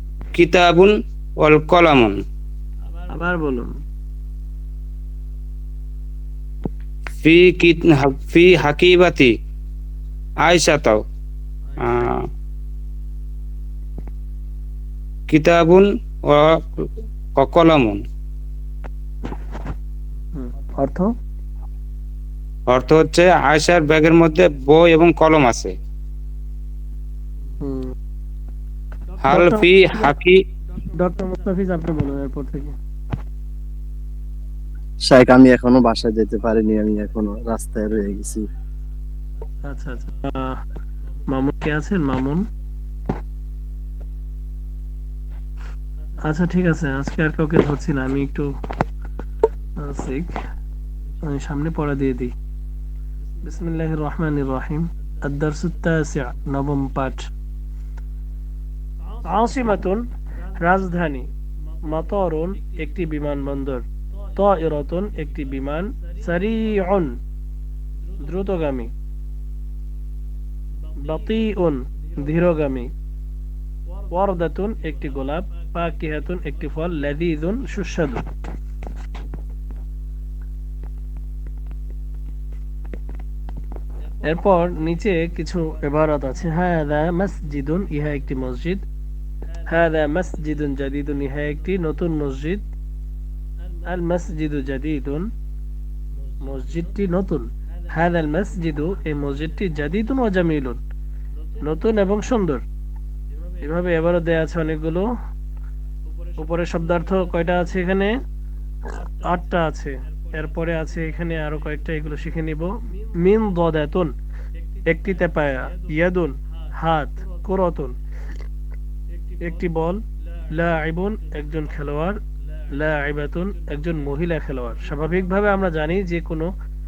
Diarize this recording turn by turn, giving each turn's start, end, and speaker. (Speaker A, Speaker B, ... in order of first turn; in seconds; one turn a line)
Speaker A: 0.3-2.2
Speaker B: 3.1-3.7
Speaker A: 7.2-9.3
Speaker A: 10.4-11.0
Speaker A: 11.8-12.3
Speaker A: 15.3-18.0
Speaker B: 20.4-21.1
Speaker A: 22.7-25.7
Speaker B: 27.6-27.9
Speaker A: 29.2-30.4
Speaker B: 29.3-30.0
Speaker B: 30.9-32.8
Speaker C: 35.0-38.5
Speaker B: 39.7-40.6
Speaker B: 41.3-42.4
Speaker B: 46.3-48.5
Speaker B: 49.9-50.3
Speaker B: 51.3-52.3
Speaker B: 53.4-57.2
Speaker B: 59.3-60.0
Speaker B: 60.6-61.3
Speaker B: 61.9-63.8
Speaker B: 64.4-67.1
Speaker B: 68.2-68.9
Speaker B: 71.1-72.9
Speaker B: 74.1-78.2
Speaker B: 84.2-88.8
Speaker B: 89.7-92.6
Speaker B: 93.9-95.3
Speaker B: 96.5-100.8
Speaker B: 101.6-102.6
Speaker B: 103.6-105.1
Speaker B: 106.4-108.1
Speaker B: 108.9-114.1
Speaker B: 114.9-117.9
Speaker B: 119.5-120.0
Speaker B: 120.6-122.2
Speaker B: 122.8-126.5